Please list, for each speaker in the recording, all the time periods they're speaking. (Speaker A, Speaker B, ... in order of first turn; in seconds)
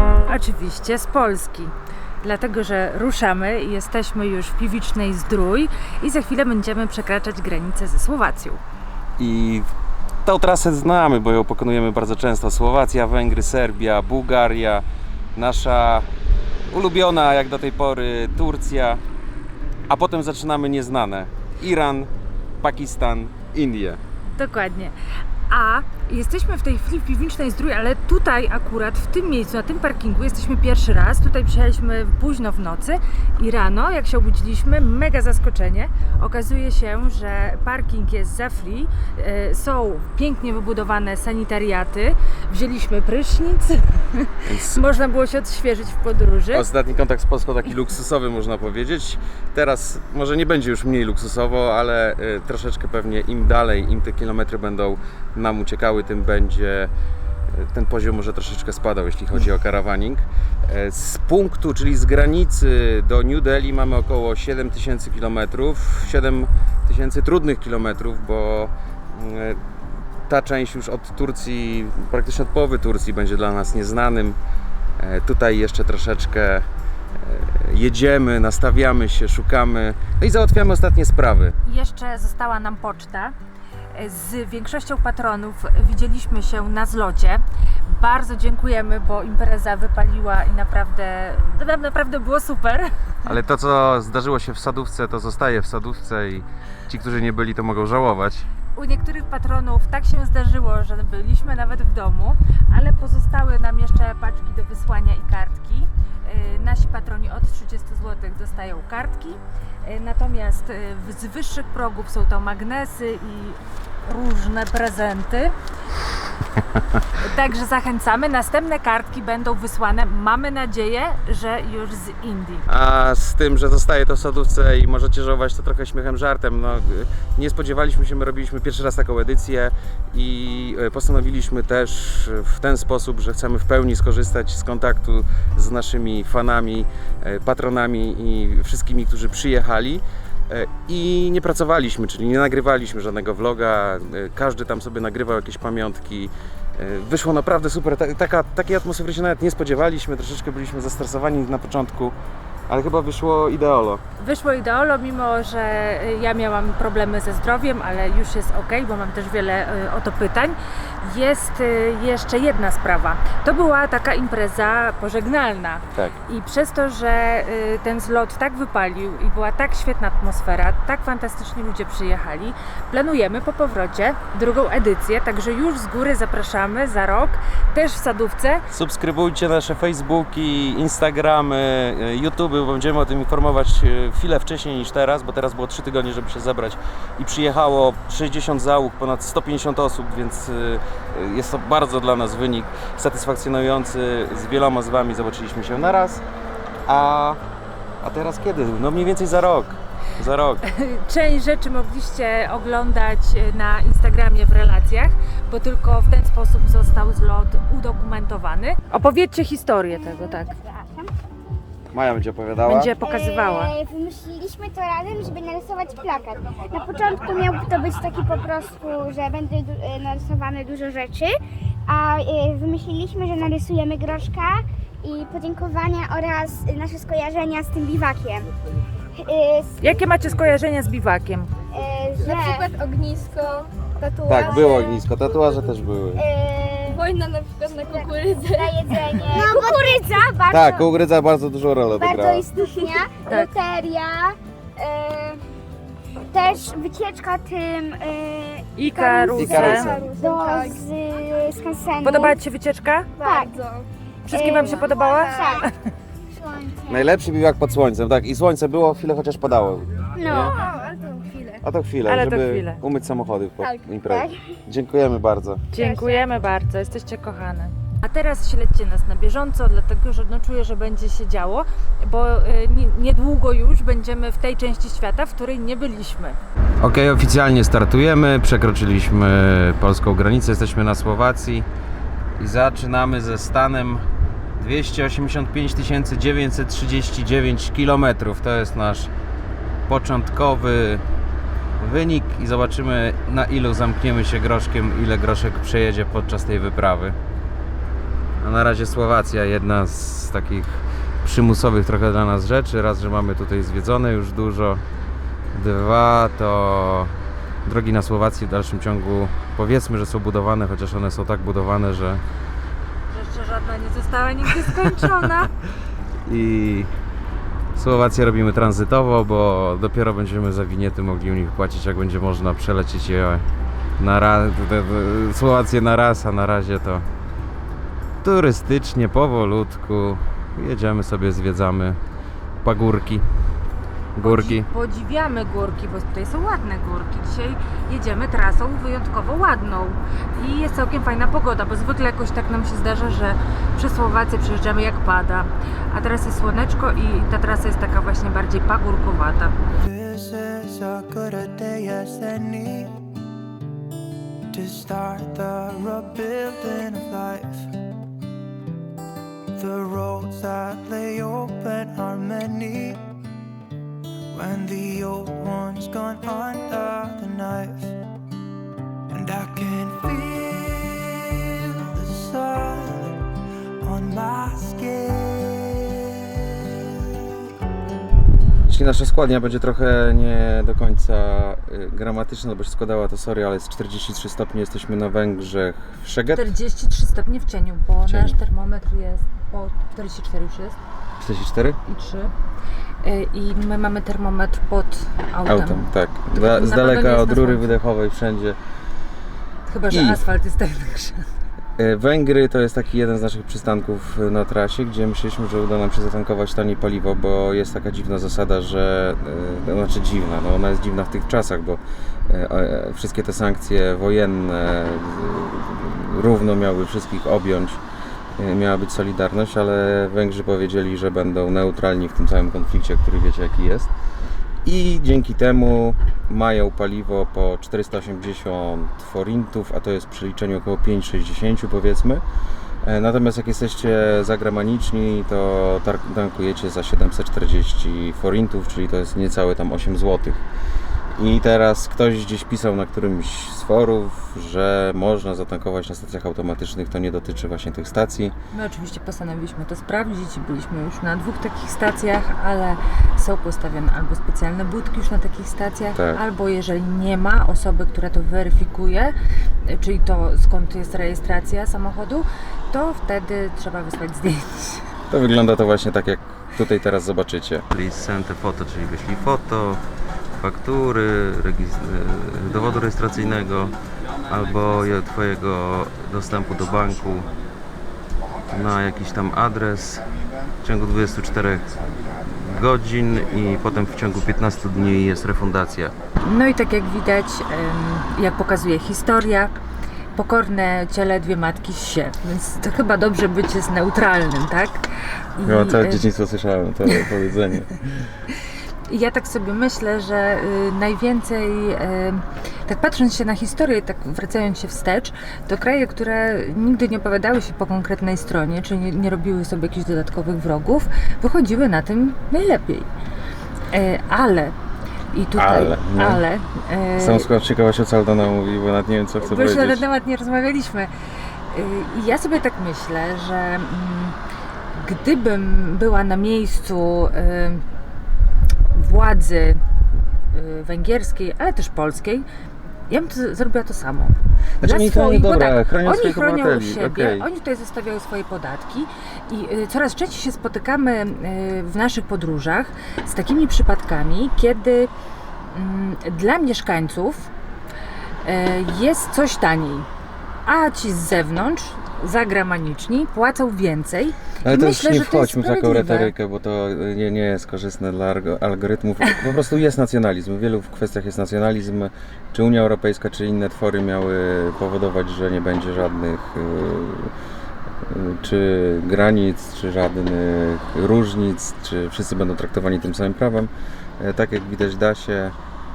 Speaker A: 0.3-8.6, 24.3-24.9, 25.5-46.7, 81.7-83.3, 83.9-93.3, 98.8-115.5, 117.2-122.7, 154.2-178.7, 200.6-210.6, 212.6-213.8, 229.8-231.5, 248.8-249.9, 252.0-253.2, 254.2-255.8, 262.1-262.8, 265.7-276.4, 313.1-315.5, 334.2-349.6, 386.3-390.8, 391.9-392.3, 393.0-397.8, 399.7-401.3, 448.5-459.1, 459.7-464.9, 486.2-489.6, 490.1-494.9, 495.4-496.1, 498.9-512.9, 513.7-514.5, 515.1-517.3, 519.2-520.9, 521.5-524.2, 524.7-527.6, 528.7-529.6, 530.3-532.3, 532.9-544.9, 545.5-547.3, 548.2-549.9, 550.5-556.1
Speaker B: 9.2-9.7, 10.2-16.1, 16.7-19.0, 19.9-24.0, 44.5-44.8, 46.5-56.9, 57.5-74.4, 75.0-76.7, 77.2-81.5, 93.2-98.5, 122.7-152.2, 152.7-154.0, 178.7-196.2, 196.8-197.4, 198.0-200.6, 211.9-212.9, 234.3-236.2, 240.5-242.4, 249.3-250.0, 256.9-260.6, 261.6-265.7, 276.8-281.7, 282.4-284.1, 284.6-289.1, 289.9-291.0, 291.8-297.2, 298.4-304.8, 305.5-312.2, 314.6-315.4, 316.2-316.9, 317.7-323.5, 324.0-327.1, 328.2-332.0, 332.6-333.2, 334.2-334.7, 378.7-386.4, 388.1-388.4, 391.2-391.8, 395.4-398.6, 399.9-400.3, 401.8-417.8, 418.4-423.9, 424.6-432.2, 432.8-440.4, 441.1-448.4, 455.9-456.2, 465.1-469.8, 470.4-473.7, 474.2-477.3, 478.5-480.1, 480.6-485.9, 495.4-498.0, 515.4-516.2, 517.0-519.8, 534.6-537.3, 554.4-567.1, 567.8-575.3
Speaker C: 210.3-211.1, 213.0-221.3, 221.8-228.5, 229.2-230.0, 231.7-232.8, 234.0-235.0, 236.2-237.0, 237.6-240.9, 242.0-245.4, 246.3-252.4, 253.2-253.6, 254.3-255.7, 256.3-257.1, 260.2-261.3, 264.1-264.5, 265.7-266.2
Speaker D: 232.2-233.7, 236.9-240.3, 242.7-243.0, 250.0-250.8, 253.2-253.8, 254.9-255.6
Speaker E: 349.8-353.0, 354.5-357.7, 359.6-363.0, 364.3-368.0, 369.1-373.2, 373.8-376.6